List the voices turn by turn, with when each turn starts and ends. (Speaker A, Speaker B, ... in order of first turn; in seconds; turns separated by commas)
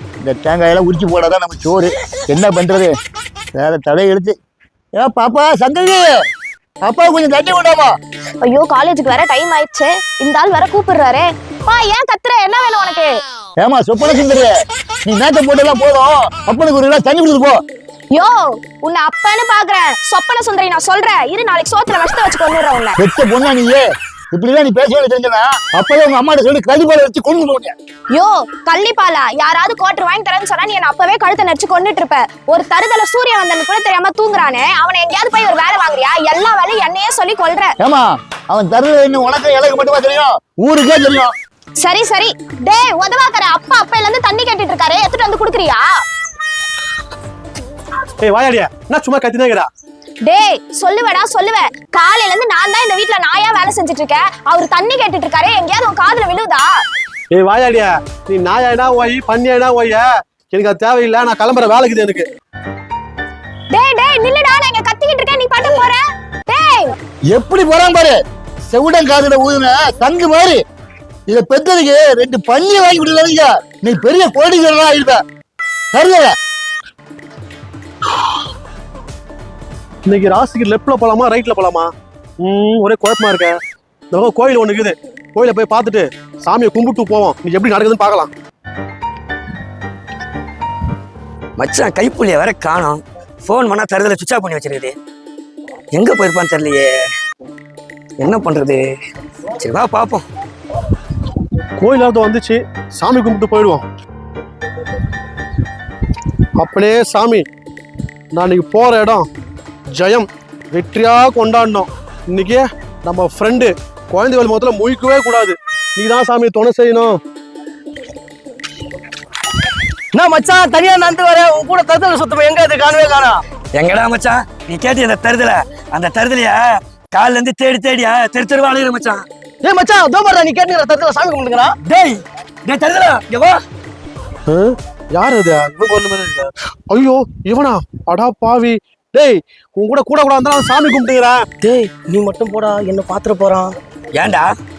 Speaker A: 0.2-2.9, Speaker A: 3.5-4.3, Speaker A: 5.0-6.1, Speaker A: 6.8-7.9, Speaker B: 8.4-13.1, Speaker A: 13.6-14.5, Speaker A: 15.1-17.6, Speaker B: 18.1-23.0, Speaker A: 23.0-27.8, Speaker B: 28.1-37.8, Speaker A: 37.8-41.3, Speaker B: 41.8-45.9, Speaker C: 48.2-49.7, Speaker B: 50.2-56.7, Speaker C: 57.3-62.2, Speaker B: 63.7-66.9, Speaker A: 67.3-70.6, Speaker A: 71.3-75.2, Speaker A: 75.9-76.3, Speaker C: 80.1-81.9, Speaker C: 82.4-83.6, Speaker C: 84.1-88.3, Speaker D: 91.6-94.9, Speaker D: 96.0-96.9, Speaker D: 98.2-98.8, Speaker D: 99.6-100.2, Speaker C: 101.8-103.8, Speaker C: 106.6-107.5, Speaker C: 108.3-109.3, Speaker C: 109.9-117.2, Speaker E: 120.1-123.4, Speaker D: 123.8-129.2, Speaker E: 129.6-131.7, Speaker D: 131.8-133.6, Speaker C: 134.5-141.4, Speaker E: 141.6-143.8, Speaker D: 144.1-144.5